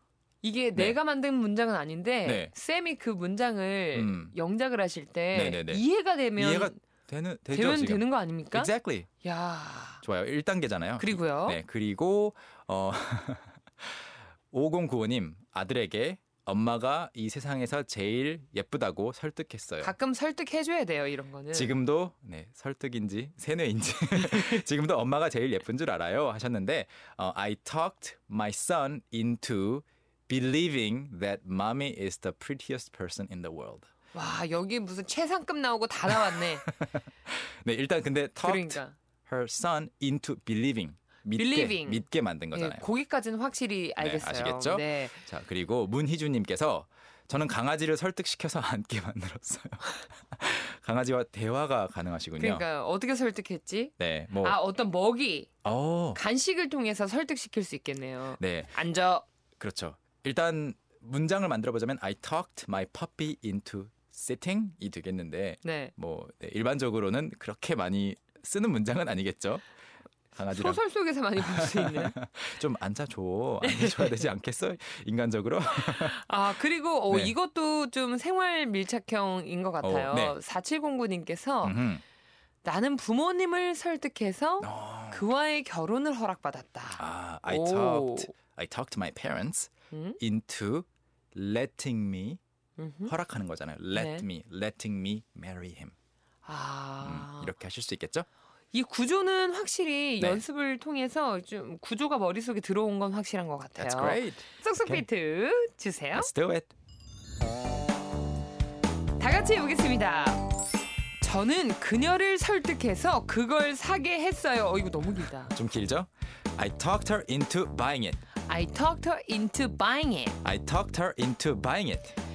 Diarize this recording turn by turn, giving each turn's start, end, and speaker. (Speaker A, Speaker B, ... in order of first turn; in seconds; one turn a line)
Speaker A: 0.4-6.8
Speaker B: 2.2-2.5
Speaker B: 3.9-4.3
Speaker B: 5.3-5.8
Speaker B: 6.4-9.1
Speaker A: 7.5-8.7
Speaker A: 9.2-10.0
Speaker B: 10.0-19.9
Speaker A: 11.0-11.6
Speaker A: 19.8-21.7
Speaker B: 21.5-33.9
Speaker A: 34.1-36.7
Speaker B: 36.1-42.9
Speaker A: 38.4-39.0
Speaker A: 41.4-45.2
Speaker B: 44.0-52.6
Speaker A: 52.4-55.5
Speaker B: 54.0-54.6
Speaker B: 55.6-56.2
Speaker A: 56.1-59.2
Speaker B: 58.4-58.8
Speaker B: 59.6-69.7
Speaker A: 65.6-65.9
Speaker B: 70.4-70.8
Speaker A: 70.5-72.1
Speaker B: 71.4-76.2
Speaker A: 73.6-74.3
Speaker A: 75.8-81.8
Speaker B: 79.8-80.4
Speaker B: 81.6-82.0
Speaker A: 82.6-88.3
Speaker B: 84.6-85.3
Speaker B: 87.0-92.4
Speaker A: 89.9-90.2
Speaker A: 92.8-93.1
Speaker B: 93.1-95.9
Speaker A: 93.9-94.3
Speaker A: 96.5-97.5
Speaker B: 97.0-98.3
Speaker A: 98.7-106.3
Speaker B: 103.8-105.1
Speaker B: 106.2-106.7
Speaker A: 109.2-110.5
Speaker A: 111.2-115.5
Speaker B: 115.5-118.2
Speaker A: 118.5-120.4
Speaker B: 120.4-122.2